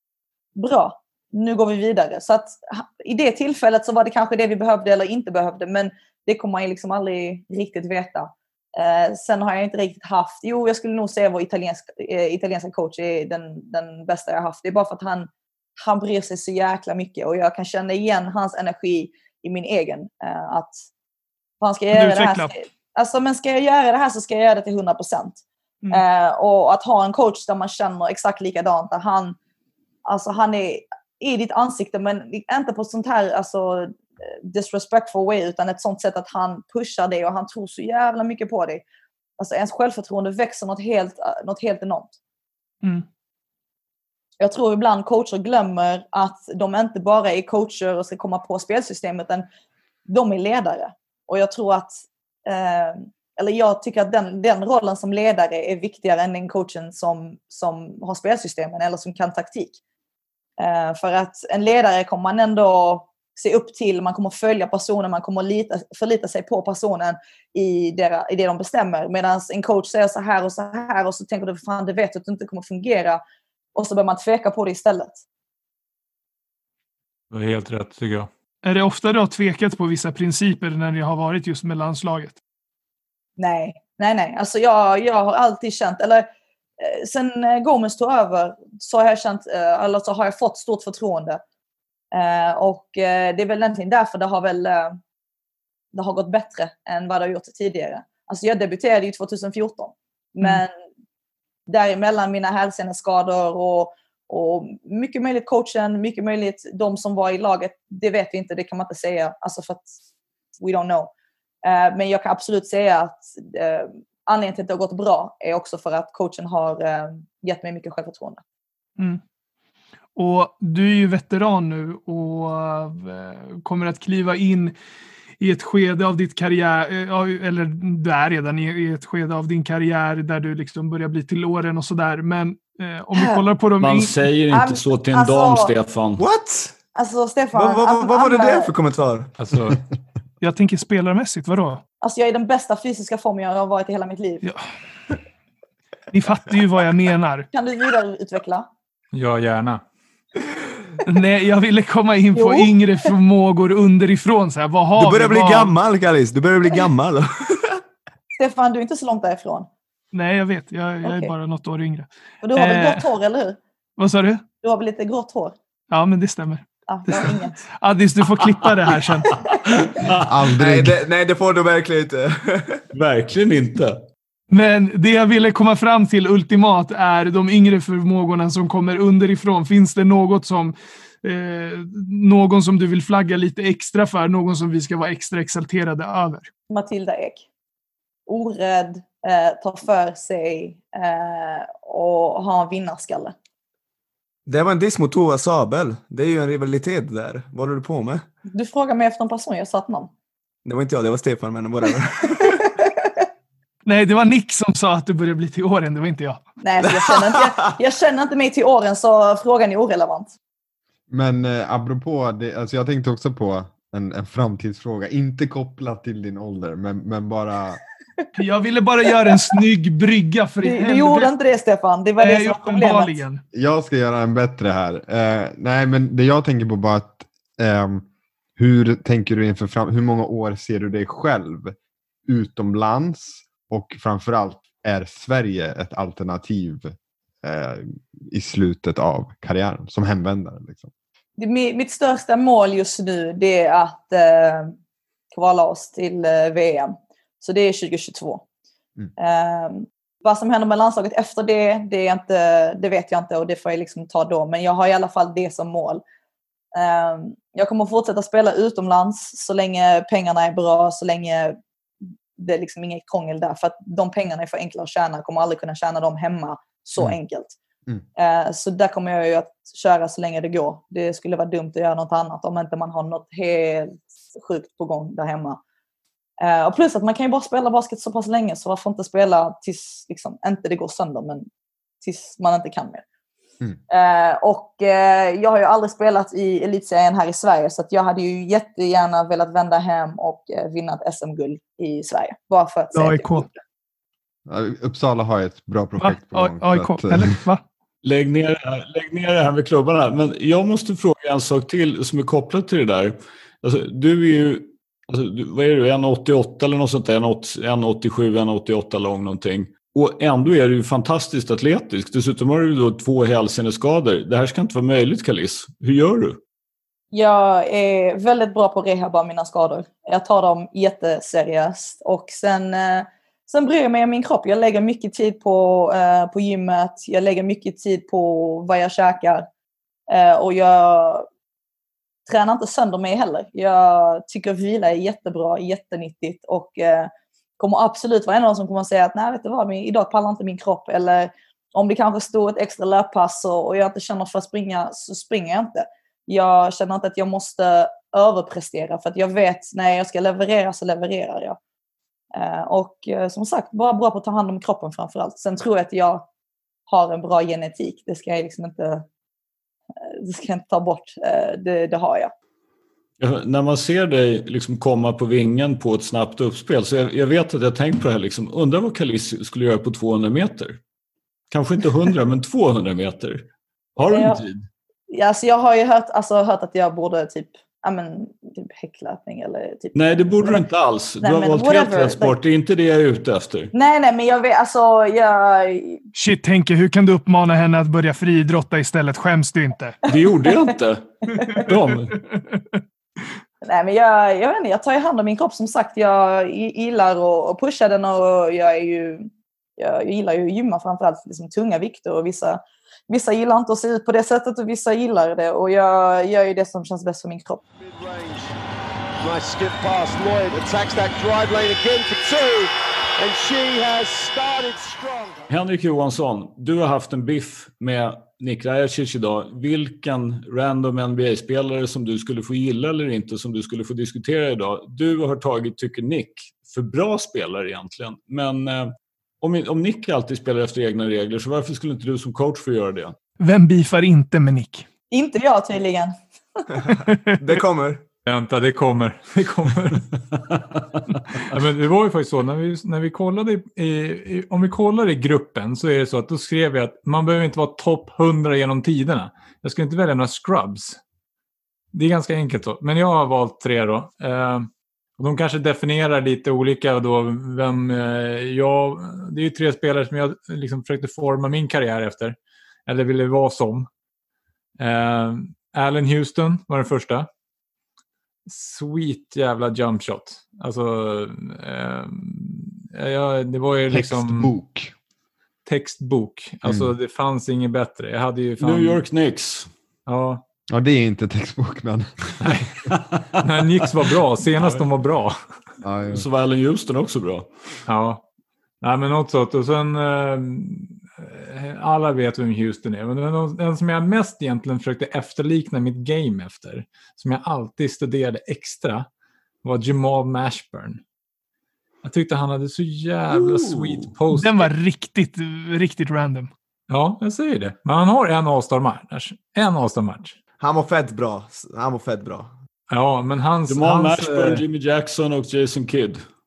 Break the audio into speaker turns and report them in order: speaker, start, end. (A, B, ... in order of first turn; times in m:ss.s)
0:00.6-0:20.8 A
0:21.6-0:25.4 A
0:21.9-0:22.5 B
0:25.9-0:29.4 A
0:30.0-0:38.8 A
0:39.4-0:42.1 A
0:44.4-0:49.4 A
0:50.1-0:59.8 A
1:00.6-1:13.2 A
1:13.7-1:15.2 A
1:17.3-1:18.3 C
1:18.6-1:22.4 B
1:23.4-1:26.3 A
1:26.8-1:31.4 A
1:32.1-1:35.0 A
1:35.9-1:40.7 A
1:41.7-1:49.9 A
1:50.6-1:51.1 A
1:51.6-1:58.4 A
2:00.2-2:04.7 B
2:05.4-2:14.1 B
2:13.2-2:13.4 A
2:13.8-2:16.2 D
2:14.5-2:15.7 A
2:16.2-2:16.8 E
2:16.9-2:18.7 A
2:17.5-2:19.3 E
2:19.4-2:19.8 C
2:20.4-2:21.8 B
2:22.0-2:24.4 A
2:26.1-2:27.5 B
2:27.5-2:28.6 A
2:29.1-2:29.8 C
2:31.0-2:35.7 B
2:32.3-2:32.7 A
2:35.0-2:37.8 E
2:38.4-2:39.7 A
2:40.1-2:43.0 B
2:41.0-2:41.3 A
2:42.4-2:43.6 A
2:44.0-2:44.4 B
2:44.6-2:45.6 A
2:45.9-2:49.3 B
2:46.9-2:47.6 A
2:48.3-2:48.5 D
2:49.6-2:50.5 D
2:50.3-2:51.0 F
2:50.6-2:52.8 E
2:52.9-2:54.0 D
2:54.5-3:06.5 B
3:06.7-3:07.4 A
3:08.3-3:13.3 A
3:14.5-3:18.2 E
3:18.5-3:20.1 A
3:20.6-3:22.6 E
3:22.8-3:23.2 A
3:23.8-3:26.4 B
3:26.6-3:30.3 A
3:26.8-3:27.4 E
3:31.1-3:37.8 F
3:38.4-3:41.3 B
3:40.6-3:43.2 A
3:42.2-3:43.4 B
3:43.5-3:48.0 F
3:48.6-3:51.7 F
3:52.3-4:00.9 F
4:01.4-4:04.7 A
4:05.3-4:08.4 A
4:09.2-4:16.0 A
4:16.7-4:21.6 A
4:22.4-4:27.6 A
4:28.2-4:35.6 A
4:36.4-4:41.5 A
4:42.0-4:43.0 A
4:43.9-4:53.6 A
4:52.9-4:53.4 B
4:54.5-4:57.4 F
4:56.0-4:57.6 B
4:58.0-5:16.4 D
5:17.1-5:29.4 A
5:30.1-5:31.3 A
5:32.3-5:51.6 A
5:52.3-5:56.2 A
5:56.9-5:59.0 A
6:00.2-6:02.3 A
6:03.2-6:10.8 D
6:11.5-6:14.6 D
6:14.0-6:14.4 A
6:15.1-6:20.6 A
6:19.9-6:23.7 D
6:21.2-6:22.3 A
6:23.7-6:26.0 A
6:26.1-6:30.0 B
6:30.0-6:32.1 D
6:31.3-6:31.6 A
6:31.5-6:32.8 B
6:33.6-6:47.6 A
6:47.8-6:48.6 G
6:49.2-6:55.4 G
6:55.5-7:13.1 D
7:13.4-7:14.8 B
7:15.1-7:16.6 A
7:16.7-7:18.0 E
7:16.9-7:17.4 B
7:18.2-7:20.1 C
7:20.5-7:21.0 D
7:21.4-7:31.0 C
7:31.9-7:43.9 C
7:44.8-7:47.3 C
7:48.4-7:54.5 C
7:53.9-7:54.9 F
7:55.6-7:59.0 C
7:56.6-7:56.9 F
7:58.6-7:59.7 D
8:00.1-8:00.4 C
8:00.7-8:02.6 F
8:02.8-8:04.9 D
8:03.4-8:05.4 C
8:05.8-8:06.2 F
8:06.1-8:07.8 D
8:07.8-8:08.2 C
8:08.8-8:19.1 C
8:19.6-8:21.0 C
8:22.0-8:24.7 C
8:23.3-8:24.1 D
8:24.3-8:26.5 B
8:26.9-8:30.3 C
8:30.6-8:32.5 E
8:32.9-8:34.6 C
8:33.7-8:36.2 D